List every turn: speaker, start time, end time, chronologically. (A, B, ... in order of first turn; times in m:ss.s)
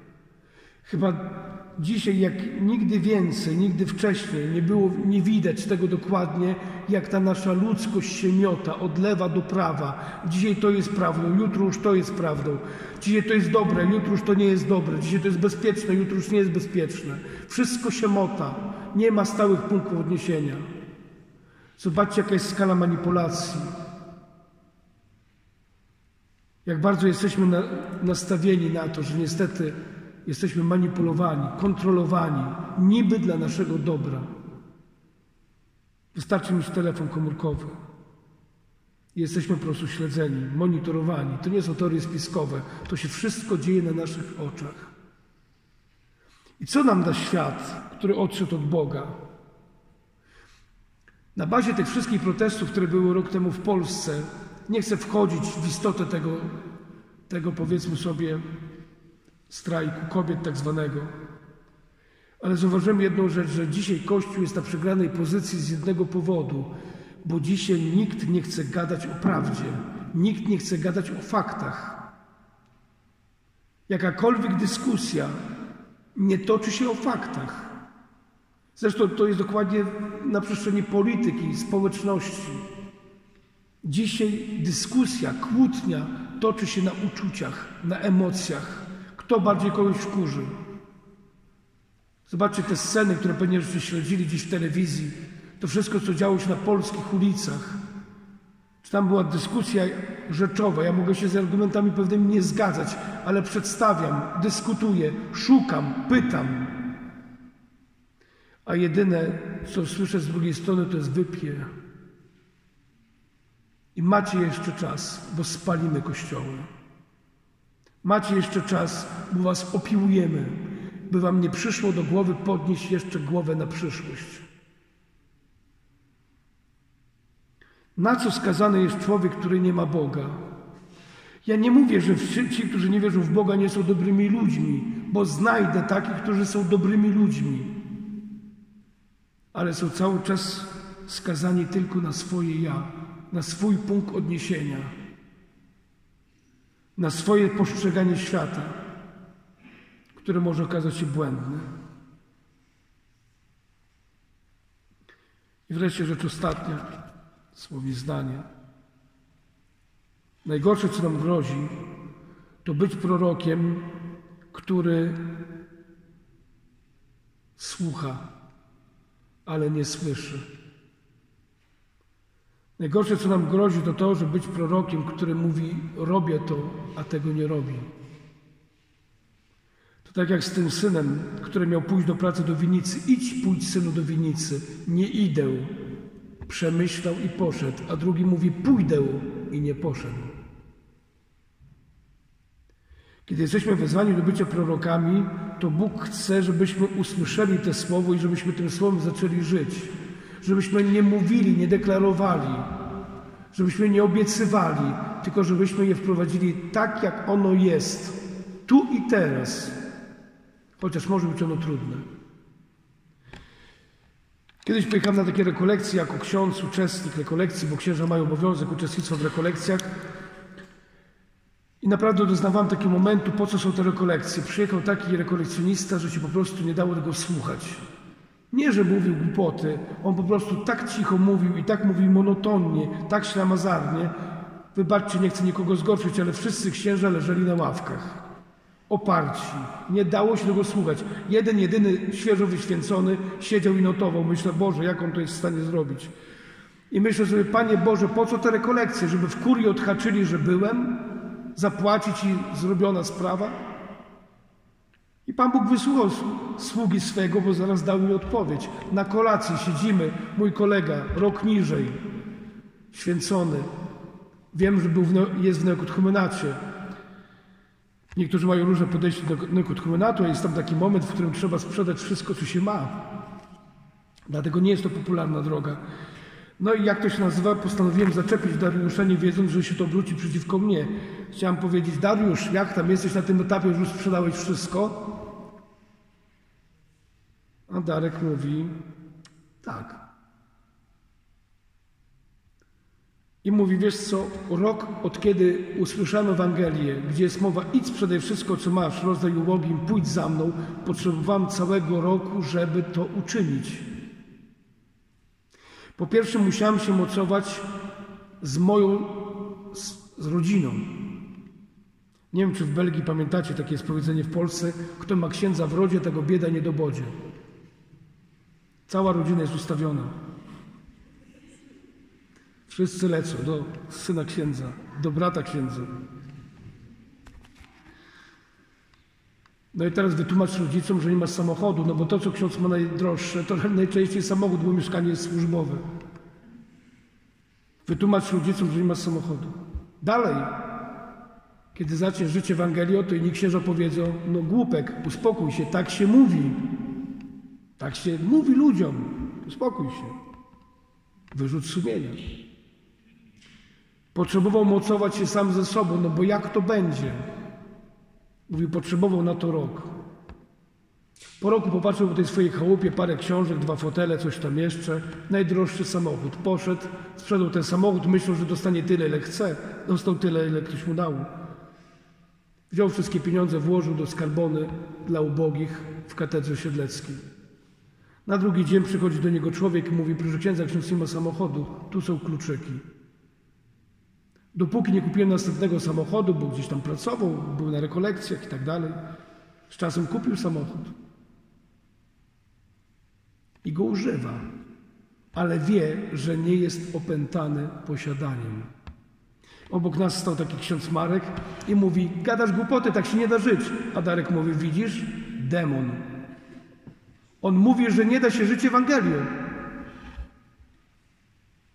0:00.8-0:20.6 A
0:21.8-0:23.7 A
0:26.6-0:34.3 A
0:36.1-0:37.8 A
0:39.1-0:44.9 A
0:46.6-0:49.2 A
0:51.4-0:56.6 A
0:57.3-0:58.4 A
0:59.5-1:01.1 A
1:02.4-1:12.0 A
1:13.9-1:15.4 A
1:16.2-1:17.7 A
1:18.8-1:22.6 A
1:23.8-1:30.5 A
1:32.3-1:37.8 A
1:38.8-1:46.8 A
1:48.7-1:51.7 A
1:54.0-1:56.7 A
1:58.0-2:04.5 A
2:08.0-2:10.4 A
2:11.4-2:17.8 A
2:19.5-2:24.9 A
2:27.0-2:28.8 A
2:30.2-2:31.7 A
2:35.7-2:36.8 A
2:37.5-2:38.5 A
2:40.4-2:41.8 A
2:42.6-2:43.9 A
2:44.5-2:45.2 A
2:47.6-2:48.3 A
2:49.5-2:50.4 A
2:52.8-2:57.9 A
3:00.0-3:05.7 A
3:06.5-3:10.3 A
3:13.3-3:22.7 A
3:23.5-3:29.8 A
3:30.8-3:32.0 A
3:34.6-3:39.9 A
3:41.8-3:47.8 A
3:48.5-3:54.1 A
3:54.7-3:58.2 A
3:58.9-4:06.1 A
4:06.9-4:13.6 A
4:15.3-4:22.0 A
4:22.9-4:23.7 A
4:24.5-4:26.6 A
4:28.2-4:33.0 A
4:34.3-4:35.8 A
4:36.6-4:45.1 A
4:47.7-4:48.8 A
4:49.6-4:50.0 A
4:53.4-5:03.9 A
5:06.0-5:07.7 A
5:08.4-5:10.9 A
5:12.3-5:17.2 A
5:18.9-5:20.2 A
5:22.7-5:25.9 A
5:29.7-5:35.8 A
5:37.9-5:40.5 A
5:41.7-5:46.6 A
5:47.8-5:50.2 A
5:51.3-5:52.2 A
5:54.1-5:57.3 A
5:58.5-5:59.9 A
6:01.4-6:11.3 A
6:12.7-6:17.2 A
6:18.3-6:22.8 A
6:24.5-6:29.0 A
6:29.7-6:30.9 A
6:33.6-6:34.4 A
6:35.3-6:38.7 A
6:39.7-6:46.0 A
6:47.4-6:49.3 A